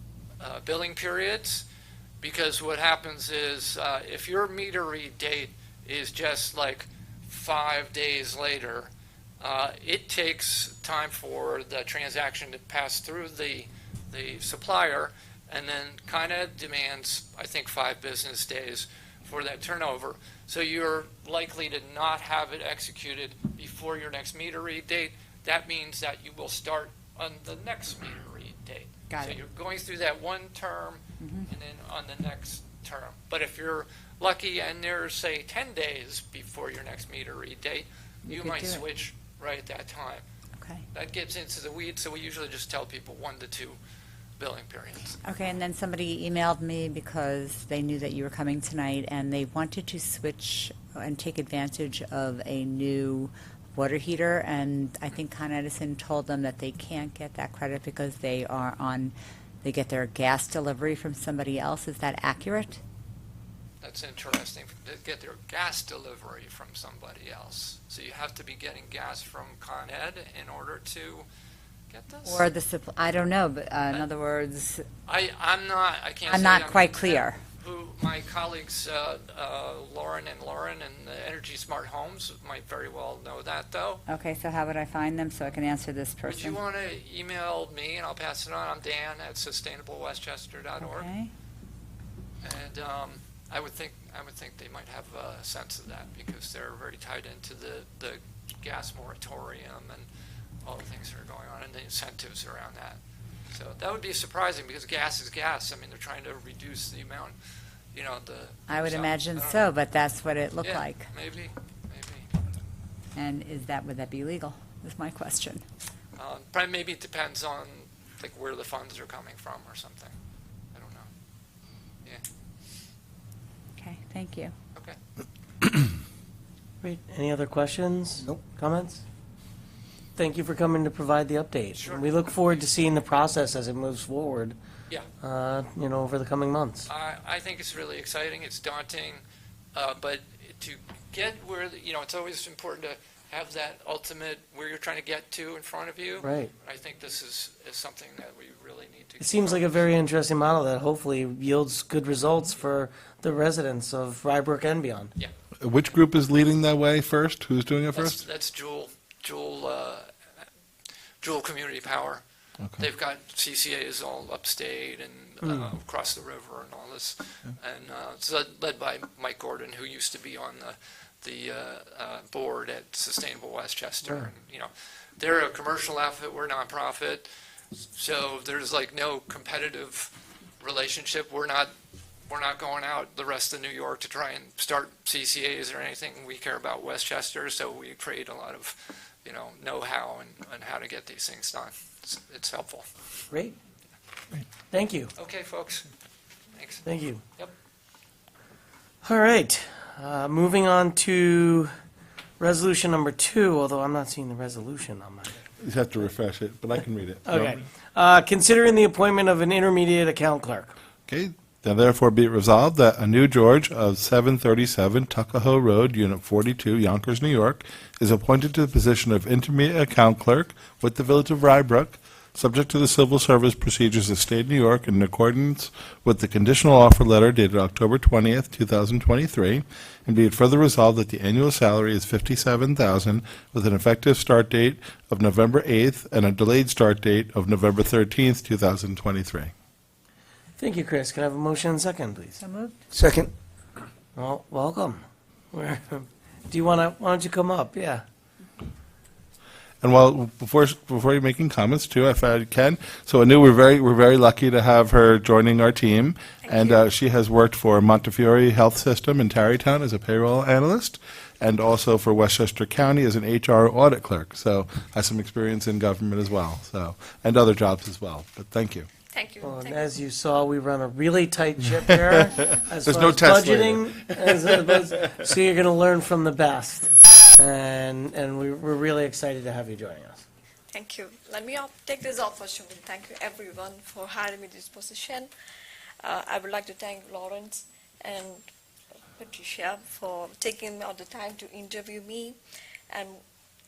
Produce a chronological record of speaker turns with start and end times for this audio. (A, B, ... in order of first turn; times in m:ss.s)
0:00.4-0:01.6 A
0:02.2-0:40.2 A
0:29.1-0:29.4 B
0:31.2-0:31.5 B
0:38.3-0:38.8 B
0:40.9-0:43.8 A
0:44.4-0:45.2 A
0:45.2-1:02.8 B
1:03.8-1:11.2 A
1:11.9-1:12.4 A
1:12.2-1:14.9 B
1:15.1-1:24.0 A
1:16.3-1:17.4 B
1:24.1-1:26.6 B
1:26.3-1:31.1 A
1:30.8-1:31.3 B
1:32.4-1:40.1 A
1:40.6-1:43.0 A
1:43.5-1:47.3 A
1:47.9-1:49.6 A
1:48.7-1:51.1 B
1:50.6-1:52.3 A
1:53.1-1:55.6 B
1:56.2-2:00.2 A
2:00.7-2:01.1 A
2:03.8-2:04.5 B
2:06.8-2:09.0 C
2:10.2-2:14.6 C
2:11.8-2:12.6 A
2:15.2-2:16.9 C
2:16.9-2:19.2 A
2:19.8-2:29.8 A
2:26.2-2:26.5 C
2:29.2-2:35.1 C
2:35.6-2:38.2 D
2:37.9-2:40.1 A
2:41.2-2:42.2 A
2:42.8-2:57.3 A
2:45.4-2:45.7 C
2:54.0-2:54.3 C
2:57.8-3:01.7 A
3:02.3-3:12.8 A
3:13.3-3:13.6 C
3:14.7-3:15.1 C
3:15.2-3:15.9 A
3:16.6-3:16.8 A
3:16.8-3:17.2 C
3:19.0-3:21.7 C
3:22.4-3:25.4 C
3:25.6-3:27.6 D
3:27.2-3:30.8 C
3:31.1-3:59.5 D
4:00.6-4:02.4 C
4:02.4-4:02.8 B
4:04.2-4:08.0 C
4:09.8-4:28.9 D
4:16.4-4:16.8 E
4:29.1-4:29.9 E
4:29.4-4:40.2 C
4:32.3-4:34.7 D
4:40.7-4:45.3 E
4:46.0-4:48.4 E
4:49.2-4:52.4 E
4:52.9-4:53.2 E